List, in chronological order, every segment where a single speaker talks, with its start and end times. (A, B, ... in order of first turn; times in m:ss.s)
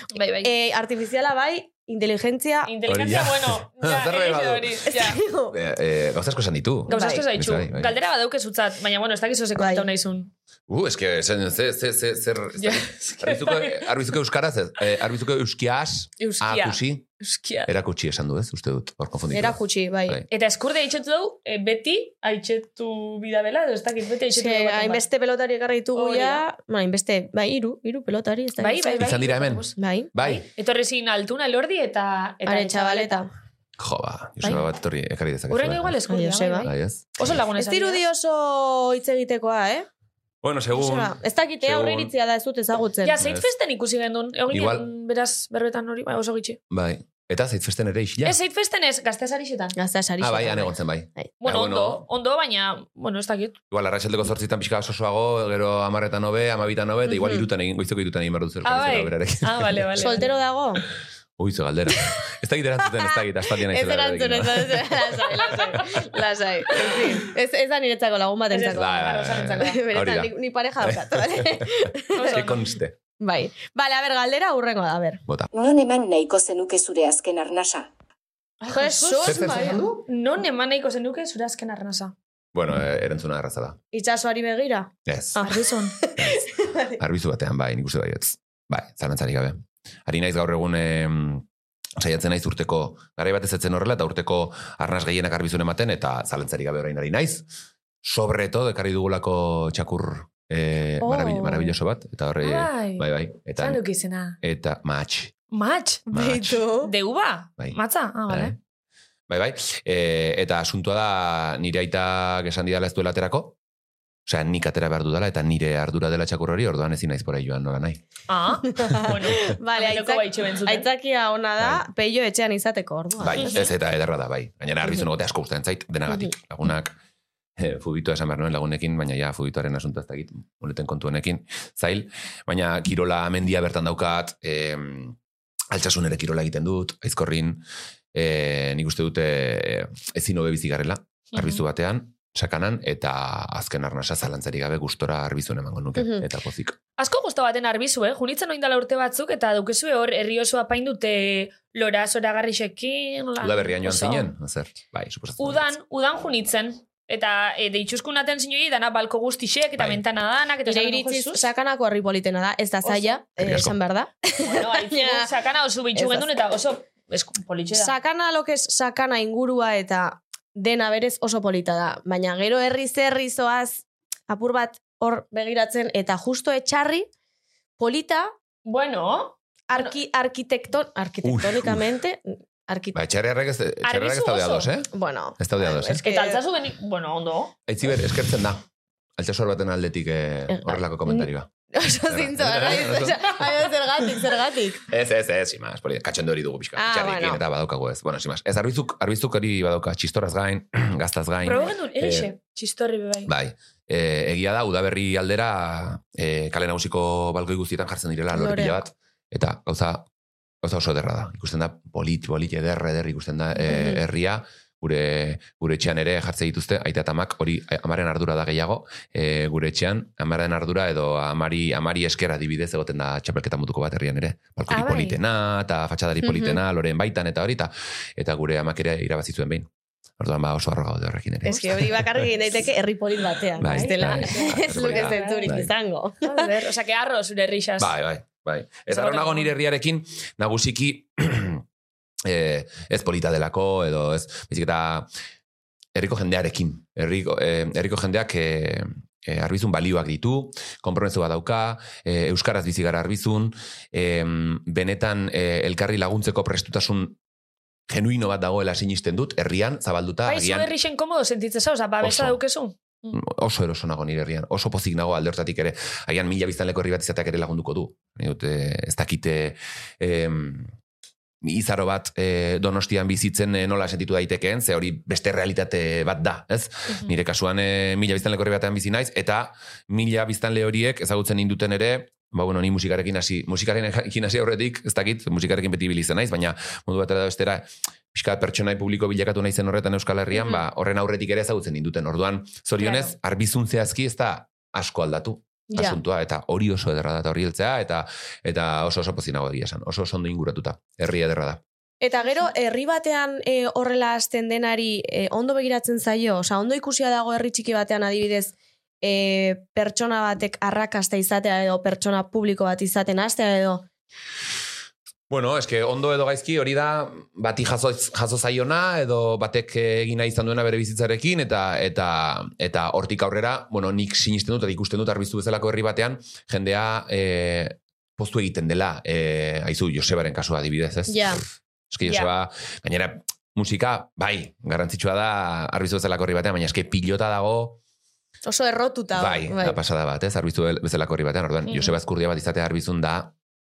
0:00.1-0:00.5 A
0:00.4-0:02.7 B
0:02.7-0:05.2 A
0:02.9-0:04.9 C
0:04.9-0:05.6 B
0:05.5-0:08.0 C
0:06.9-0:10.3 A
0:06.9-0:07.3 B
0:09.6-0:09.9 B
0:10.7-0:17.1 C
0:12.6-0:13.9 A
0:16.2-0:17.7 A
0:17.7-0:20.3 C
0:19.3-0:20.2 B
0:20.3-0:25.0 A
0:24.4-0:29.1 B
0:25.9-0:26.4 A
0:28.6-0:33.2 A
0:29.0-0:30.4 C
0:29.8-0:30.1 B
0:32.5-0:33.3 B
0:33.8-0:36.0 C
0:35.5-0:38.0 A
0:36.1-0:36.7 B
0:36.6-0:37.1 C
0:37.6-0:39.9 B
0:40.4-0:42.1 C
0:40.7-0:43.2 B
0:43.0-0:46.6 A
0:43.2-0:43.5 C
0:44.5-0:44.9 C
0:46.7-0:48.4 C
0:48.2-0:49.8 A
0:49.8-0:51.3 B
0:50.2-0:52.0 C
0:51.4-0:53.6 A
0:53.7-1:00.0 C
0:57.1-0:57.4 B
0:58.6-1:00.3 A
1:00.0-1:00.9 B
1:01.4-1:06.0 C
1:03.6-1:12.4 B
1:05.3-1:05.8 A
1:08.5-1:09.8 A
1:08.7-1:13.0 C
1:12.1-1:12.6 A
1:13.2-1:15.2 B
1:15.5-1:17.9 D
1:18.6-1:22.1 A
1:18.7-1:19.9 B
1:19.2-1:20.0 C
1:22.5-1:23.8 C
1:23.9-1:27.0 B
1:25.1-1:25.4 C
1:25.4-1:26.0 A
1:26.2-1:31.5 C
1:32.0-1:37.5 C
1:38.0-1:43.8 C
1:41.0-1:41.7 B
1:42.4-1:44.4 A
1:44.4-1:45.3 C
1:45.5-1:46.1 A
1:46.1-1:46.6 C
1:46.1-1:46.9 B
1:46.8-1:48.5 A
1:47.6-1:48.6 C
1:49.3-1:53.6 C
1:54.3-1:58.0 C
1:58.3-2:00.9 A
1:58.9-2:03.6 B
2:01.6-2:01.8 C
2:03.2-2:07.0 C
2:03.4-2:03.7 A
2:07.6-2:15.2 C
2:15.7-2:17.6 C
2:18.1-2:26.8 C
2:21.3-2:21.6 A
2:26.0-2:26.2 B
2:27.0-2:34.3 A
2:33.4-2:35.7 C
2:35.4-2:41.4 A
2:40.7-2:45.3 B
2:42.8-2:43.2 A
2:43.4-2:43.8 C
2:44.4-2:47.9 A
2:46.0-2:46.3 B
2:47.7-2:57.1 B
2:57.8-2:58.3 B
2:58.6-2:59.9 A
2:59.7-3:03.0 B
3:01.2-3:01.9 C
3:02.9-3:06.0 C
3:03.8-3:04.7 A
3:04.9-3:06.4 B
3:06.0-3:07.5 A
3:07.7-3:08.6 C
3:09.2-3:11.5 C
3:10.5-3:14.8 B
3:12.1-3:13.4 C
3:14.9-3:22.3 C
3:16.8-3:17.4 B
3:21.4-3:23.3 A
3:23.3-3:30.1 C
3:28.3-3:28.8 B
3:30.6-3:52.4 C
3:33.6-3:34.0 B
3:44.7-3:45.2 A
3:46.3-3:46.6 B
3:51.4-3:56.5 B
3:53.6-3:55.7 C
3:53.6-3:55.7 A
3:56.2-3:57.9 A
3:57.8-4:01.6 C
3:58.9-3:59.5 A
4:02.2-4:05.1 C
4:06.0-4:17.2 C
4:17.9-4:20.7 C
4:20.3-4:23.2 A
4:22.0-4:22.4 C
4:23.1-4:30.7 C
4:31.4-5:01.6 C
4:52.8-4:53.1 A
4:55.7-4:56.0 B
5:02.0-5:13.8 B
5:15.3-5:37.8 C
5:31.1-5:31.4 B
5:32.0-5:32.3 A
5:38.4-5:39.8 B
5:39.1-5:43.3 C
5:41.7-5:41.9 A